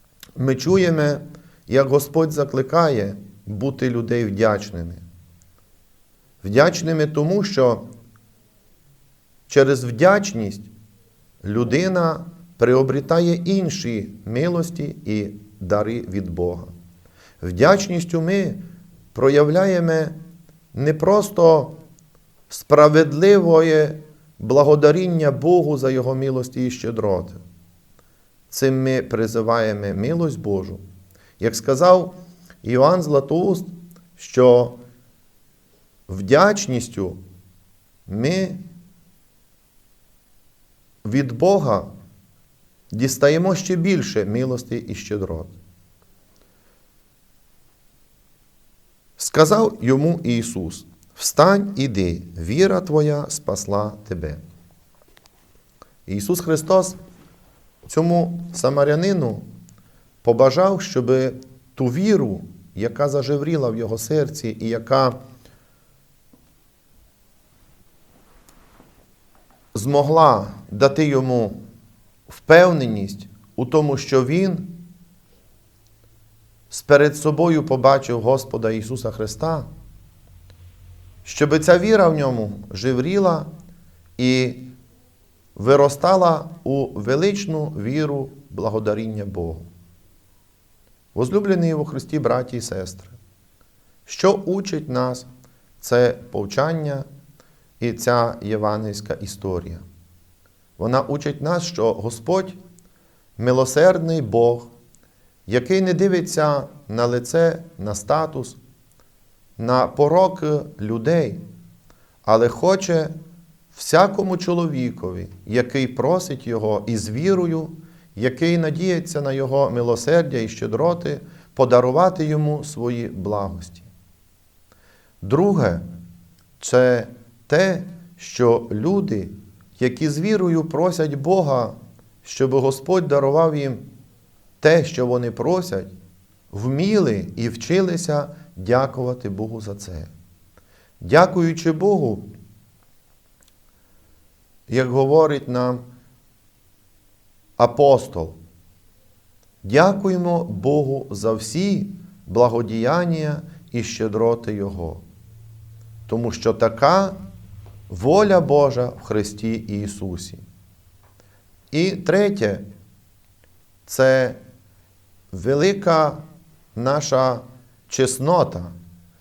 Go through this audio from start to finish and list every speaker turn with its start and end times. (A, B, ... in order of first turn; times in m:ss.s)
0:00.4-0:05.0 A
0:06.4-0:07.9 A
0:09.5-0:10.7 A
0:11.4-0:16.7 A
0:17.4-0:20.2 A
0:20.7-0:21.8 A
0:22.5-0:27.4 A
0:28.5-0:30.8 A
0:31.4-0:34.8 A
0:36.1-0:37.2 A
0:38.1-0:38.7 A
0:41.0-0:41.9 A
0:42.9-0:45.6 A
0:49.2-0:54.4 A
0:56.1-0:57.0 A
0:57.8-0:59.5 A
1:00.2-1:05.2 A
1:09.7-1:11.6 A
1:12.3-1:14.8 A
1:16.7-1:19.7 A
1:21.2-1:23.5 A
1:24.2-1:24.7 A
1:25.6-1:29.7 A
1:31.1-1:33.2 A
1:34.1-1:35.3 A
1:35.8-1:37.1 A
1:37.8-1:39.8 A
1:40.8-1:42.6 A
1:43.4-1:44.7 A
1:45.5-1:48.6 A
1:49.6-1:51.4 A
1:52.2-1:53.2 A
1:53.7-2:03.9 A
2:05.2-2:05.9 A
2:06.6-2:13.9 A
2:14.6-2:15.9 A
2:16.5-2:20.1 A
2:21.0-2:22.3 A
2:24.7-2:25.8 A
2:27.6-2:28.4 A
2:29.6-2:35.0 A
2:36.1-2:37.2 A
2:37.9-2:40.4 A
2:41.7-2:42.6 A
2:43.8-2:44.4 A
2:45.3-2:48.7 A